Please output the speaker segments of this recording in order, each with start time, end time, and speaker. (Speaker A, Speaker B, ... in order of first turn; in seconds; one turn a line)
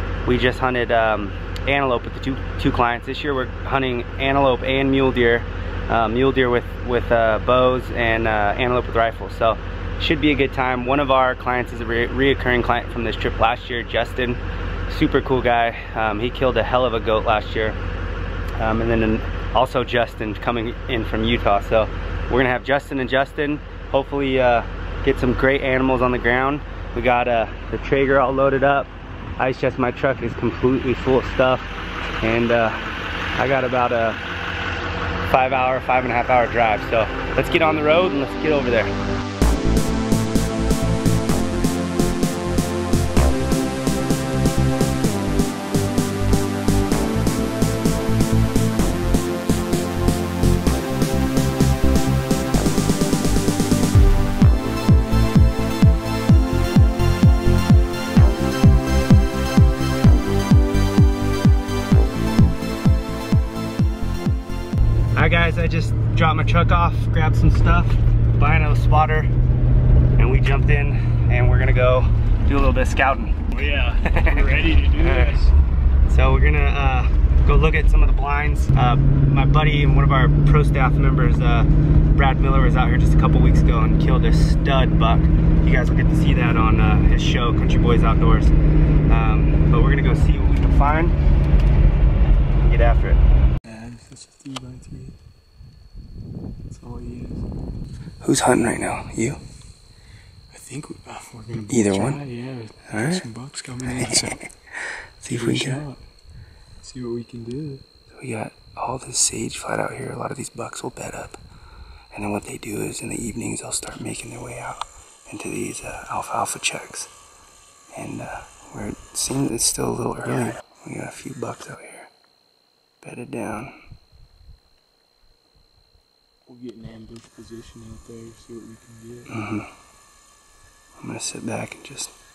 Speaker A: 0.2-17.8
Speaker A: 18.6-31.7
Speaker A: 32.2-32.8
Speaker A: 33.3-34.2
Speaker A: 35.3-38.9
Speaker A: 65.1-69.3
Speaker A: 70.2-75.4
Speaker B: 73.5-75.5
Speaker A: 76.1-88.5
Speaker A: 89.1-91.2
Speaker A: 92.6-93.2
Speaker B: 93.6-95.2
Speaker B: 96.7-97.5
Speaker A: 98.2-99.4
Speaker B: 100.5-104.4
Speaker A: 101.7-102.2
Speaker A: 102.9-103.2
Speaker A: 104.0-105.8
Speaker B: 105.3-106.0
Speaker B: 106.8-107.8
Speaker A: 108.1-111.4
Speaker A: 112.1-117.1
Speaker A: 117.9-122.1
Speaker A: 123.0-123.7
Speaker B: 126.5-129.3
Speaker A: 129.3-129.7
Speaker A: 131.0-132.1